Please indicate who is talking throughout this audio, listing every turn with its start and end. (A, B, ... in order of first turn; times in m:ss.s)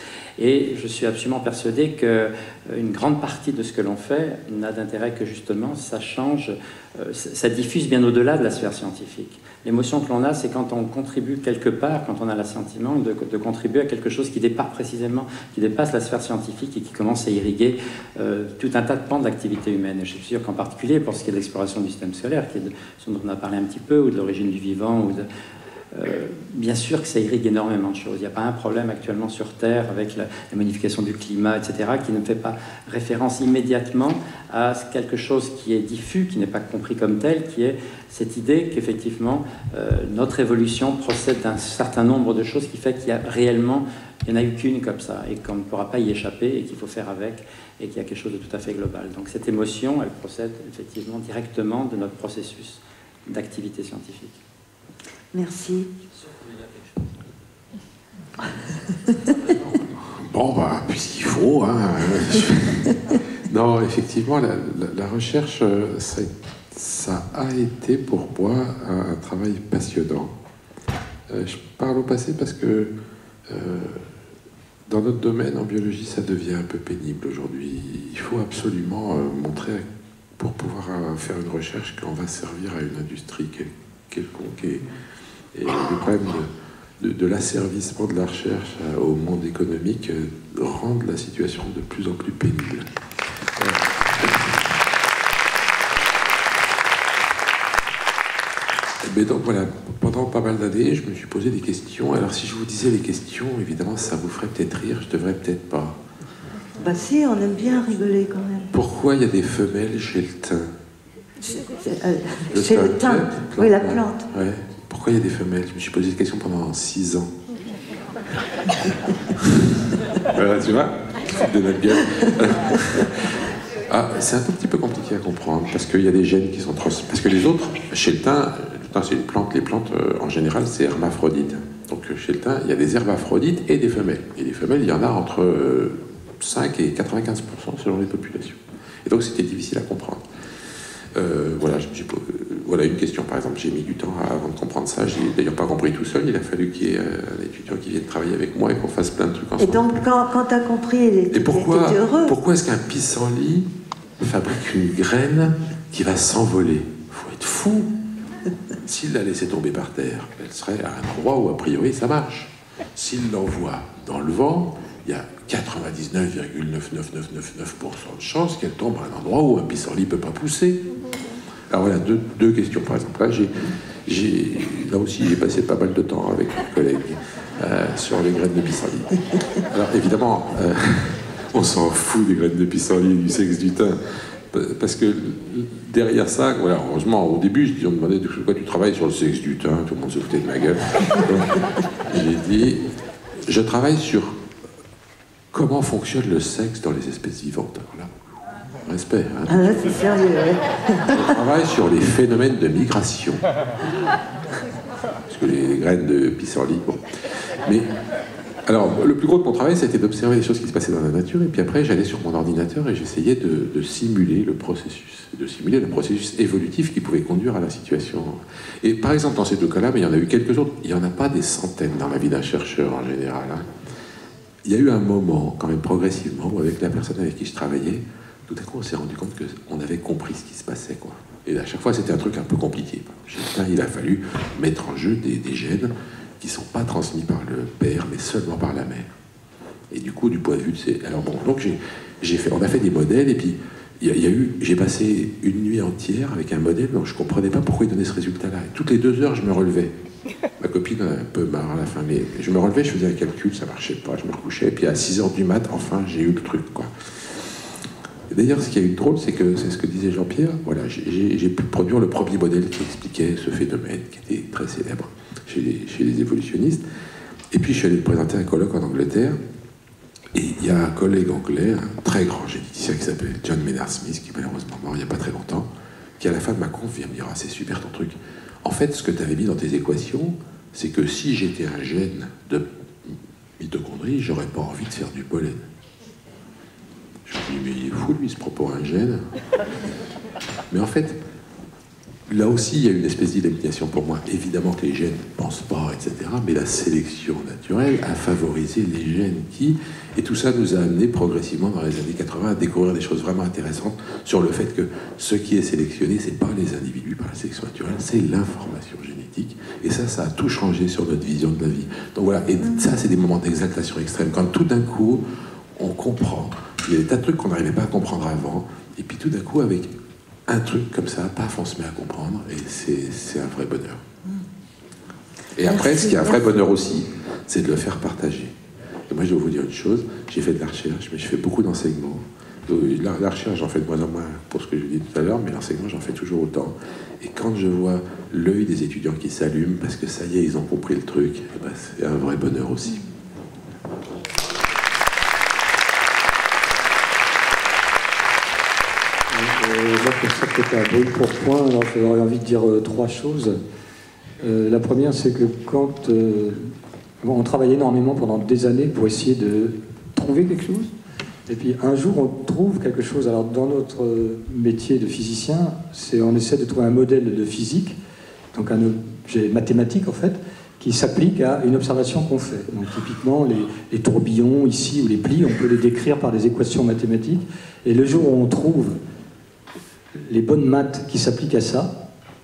0:00.4-0:25.3 A
0:25.9-0:54.4 A
0:55.3-0:55.9 B
1:00.2-1:10.3 C
1:11.3-1:12.9 C
1:13.5-1:14.1 C
1:14.9-1:19.8 C
1:20.4-1:24.9 C
1:25.5-1:32.9 C
1:33.6-1:34.6 C
1:39.0-1:46.0 C
1:46.8-1:48.7 B
1:48.7-1:50.7 C
1:51.5-1:54.2 B
1:52.5-1:57.3 C
2:00.3-2:03.4 C
2:03.9-2:20.2 C
2:21.1-2:30.0 C
2:29.6-2:32.4 B
2:31.3-2:33.7 C
2:34.2-2:37.9 C
2:38.8-2:50.8 C
2:51.7-3:12.8 C
3:13.5-3:14.4 C
3:15.5-3:19.9 C
3:19.5-3:21.2 B
3:21.1-3:23.4 C
3:25.3-3:27.9 C
3:28.6-3:43.6 C
3:44.6-3:59.1 C
3:59.9-4:09.9 C
4:10.6-4:17.5 C
4:18.3-4:26.8 C
4:27.5-4:29.4 C
4:30.3-4:35.7 C
4:36.2-4:45.7 C
4:47.3-4:49.2 C
4:50.7-4:51.2 C
4:52.3-5:15.2 C
5:15.8-5:19.9 C
5:20.5-5:24.0 C
5:25.6-5:28.5 C
5:25.6-5:26.4 B
5:29.1-5:43.0 C
5:49.3-5:53.6 D
5:54.4-5:56.7 D
5:57.2-6:00.9 D
6:01.5-6:08.0 D
6:08.5-6:19.0 D
6:20.2-6:21.9 D